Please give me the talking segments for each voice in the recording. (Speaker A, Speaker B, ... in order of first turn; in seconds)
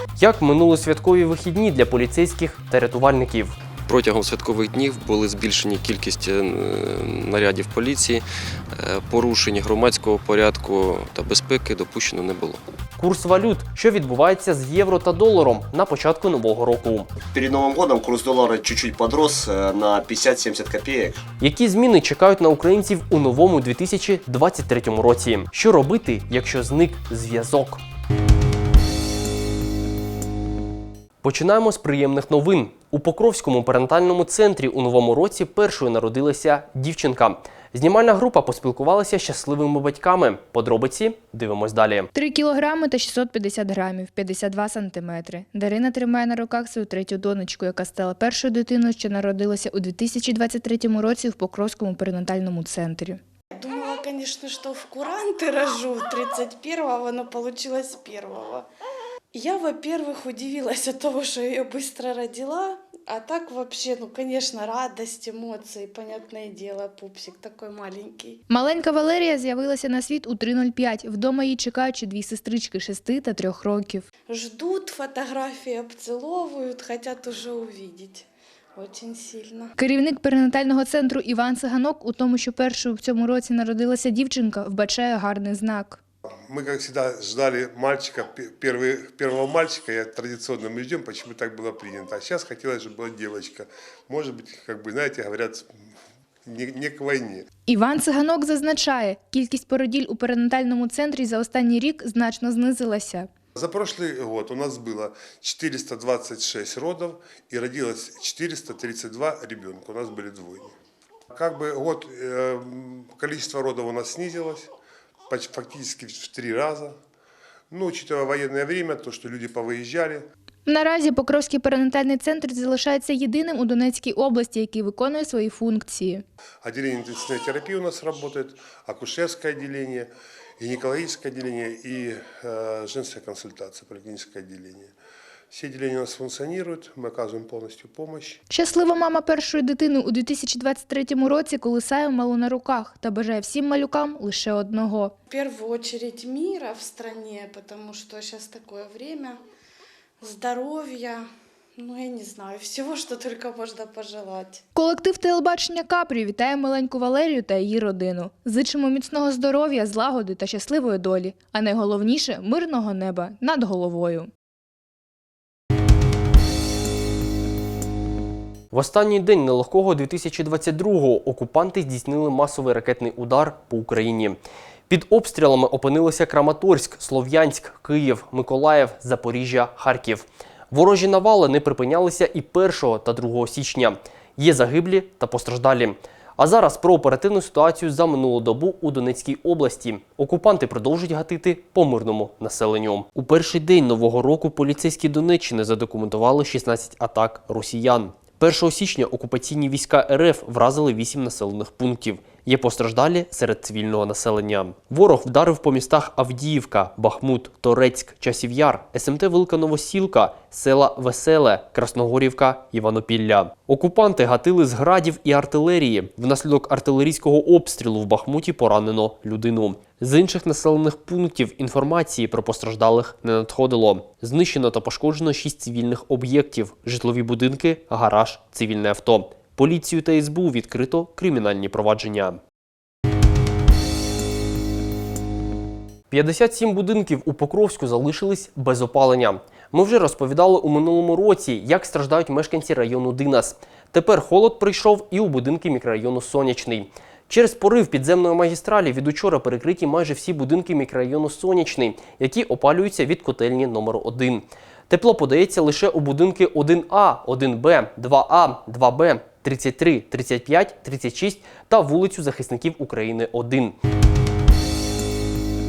Speaker A: 0.2-3.6, 13.0-17.1, 21.4-27.8, 31.2-42.1, 168.7-174.4, 174.9-232.4, 236.1-263.8
Speaker B: 3.9-8.2, 8.8-12.6
Speaker C: 17.3-21.2
Speaker D: 42.1-53.2, 68.5-74.1, 79.8-86.0, 97.7-103.3, 120.7-126.2, 138.5-145.2, 154.8-164.3
Speaker E: 53.6-58.7, 59.3-68.4, 74.3-79.7, 145.3-149.4, 150.2-151.2, 151.8-154.6
Speaker F: 86.5-95.7, 96.5-97.5, 103.6-110.7, 111.3-114.7, 115.3-117.0, 117.7-120.3, 126.6-134.9, 135.5-138.4